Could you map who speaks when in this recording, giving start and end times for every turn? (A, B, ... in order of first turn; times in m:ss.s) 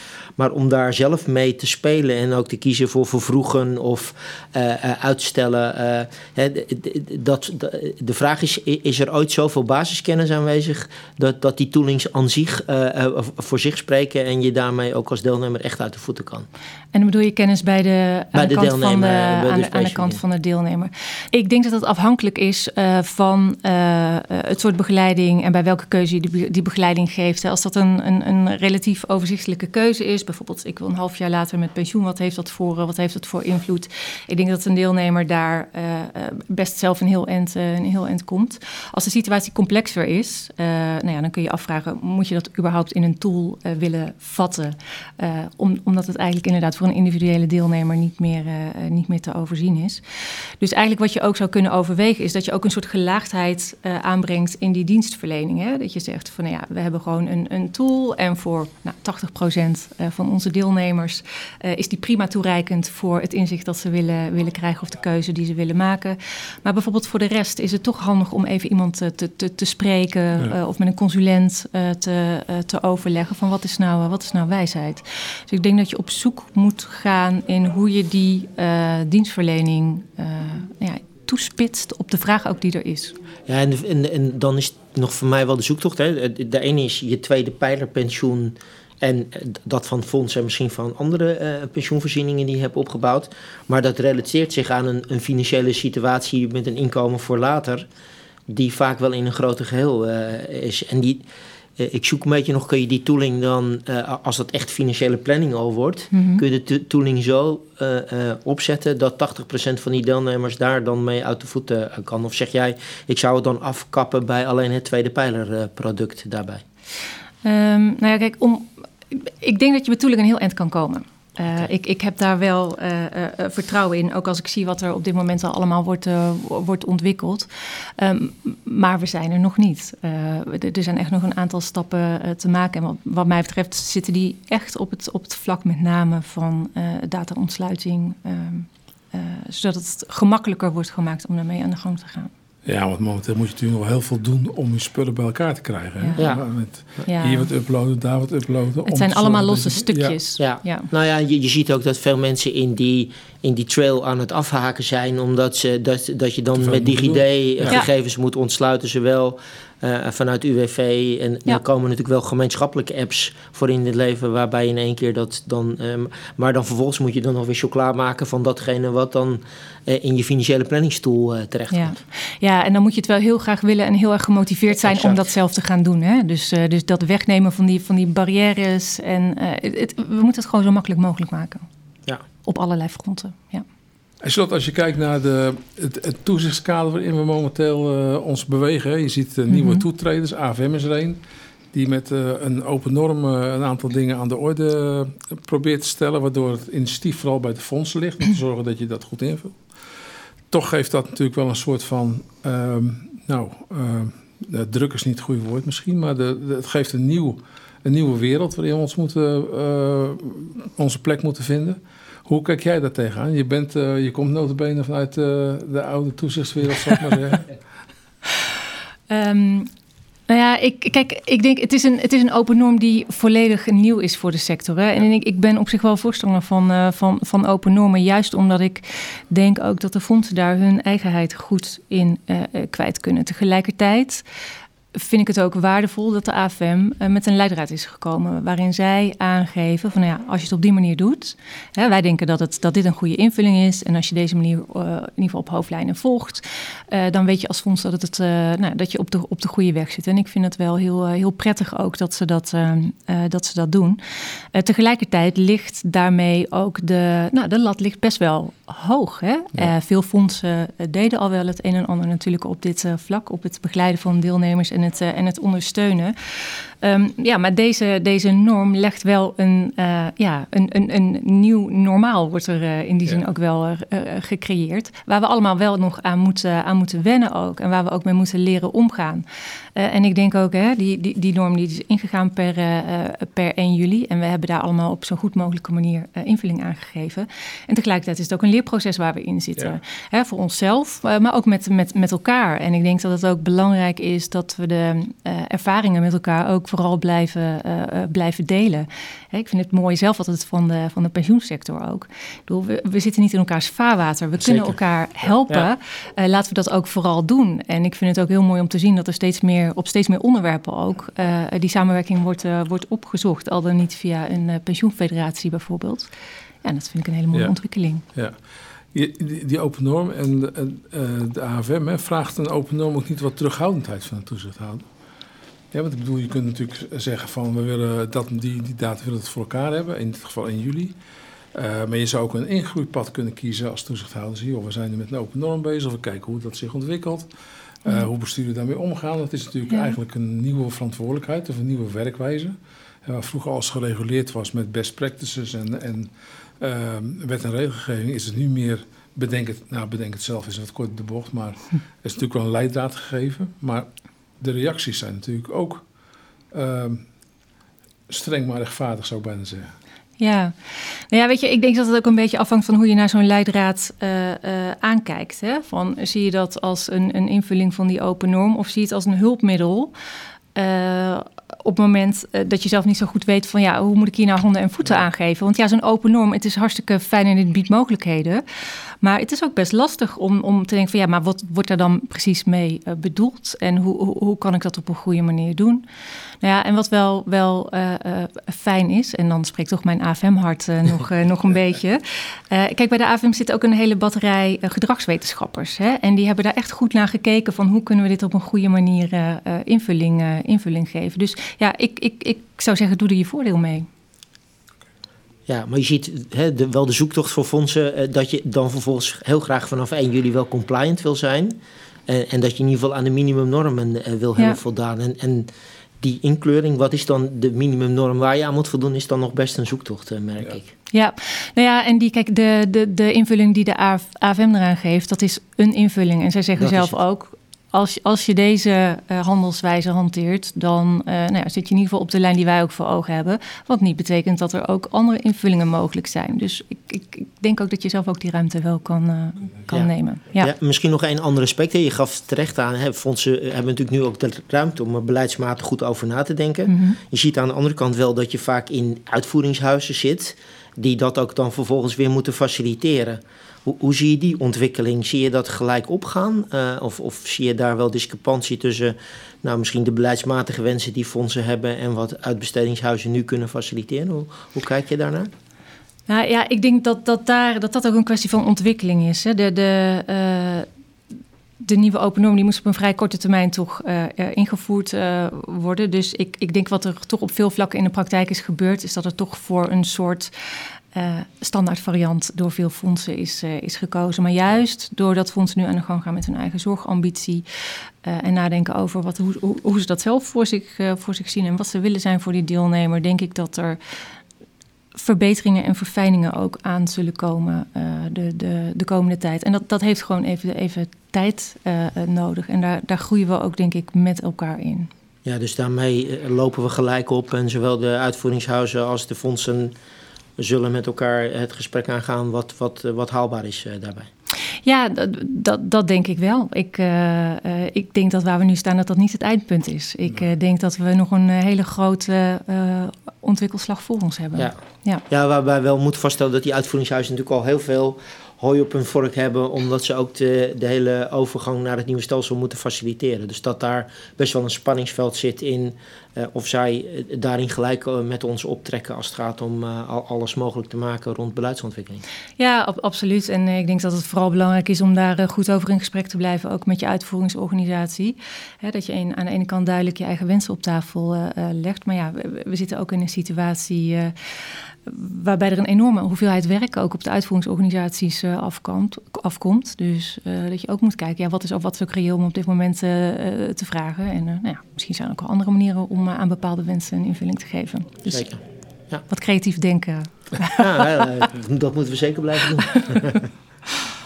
0:00.4-0:16.5 A
0:16.9-0:50.0 B
0:18.3-0:20.2 A
0:50.6-1:23.1 B
1:23.5-1:37.8 A
1:38.5-1:41.2 A
1:41.8-1:56.6 A
1:46.1-1:46.4 B
1:57.4-2:22.3 B
2:22.6-2:30.2 C
2:26.0-2:26.4 B
2:26.2-2:26.4 A
2:27.0-2:27.5 B
2:28.8-2:30.9 B
2:30.4-2:52.0 A
2:36.6-2:37.8 C
2:51.7-3:01.6 B
2:54.7-2:55.2 A
3:02.4-3:03.6 B
3:04.2-3:11.2 C
3:09.5-3:09.8 B
3:11.7-3:19.6 C
3:20.5-3:37.5 C
3:39.1-3:39.7 B
3:40.3-3:54.2 B
3:54.9-4:14.0 B
4:14.5-4:39.2 B
4:39.8-5:16.1 B
5:16.6-5:18.0 B
5:18.9-5:24.8 C
5:25.7-5:30.9 C
5:31.5-5:37.3 C
5:37.8-5:53.9 C
5:39.7-5:39.9 B
5:54.4-5:55.8 C
5:56.5-5:57.0 C
5:58.1-5:59.7 C
6:00.2-6:09.9 B
6:10.5-6:18.4 B
6:19.0-6:25.8 B
6:26.4-6:43.9 B
6:45.5-6:55.5 A
6:56.0-7:00.7 A
7:00.9-7:20.5 B
7:06.6-7:07.0 A
7:19.7-7:45.3 A
7:26.7-7:27.0 B
7:46.1-7:50.7 B
7:51.6-8:00.3 B
8:00.9-8:07.4 B
8:08.0-8:13.8 B
8:14.9-8:24.9 B
8:25.2-8:29.7 A
8:30.4-8:34.1 A
8:34.6-8:45.0 B
8:45.1-9:02.0 A
9:02.4-9:14.1 B
9:14.8-9:28.3 B
9:28.1-9:28.4 A
9:29.1-9:30.8 B
9:30.5-9:33.2 A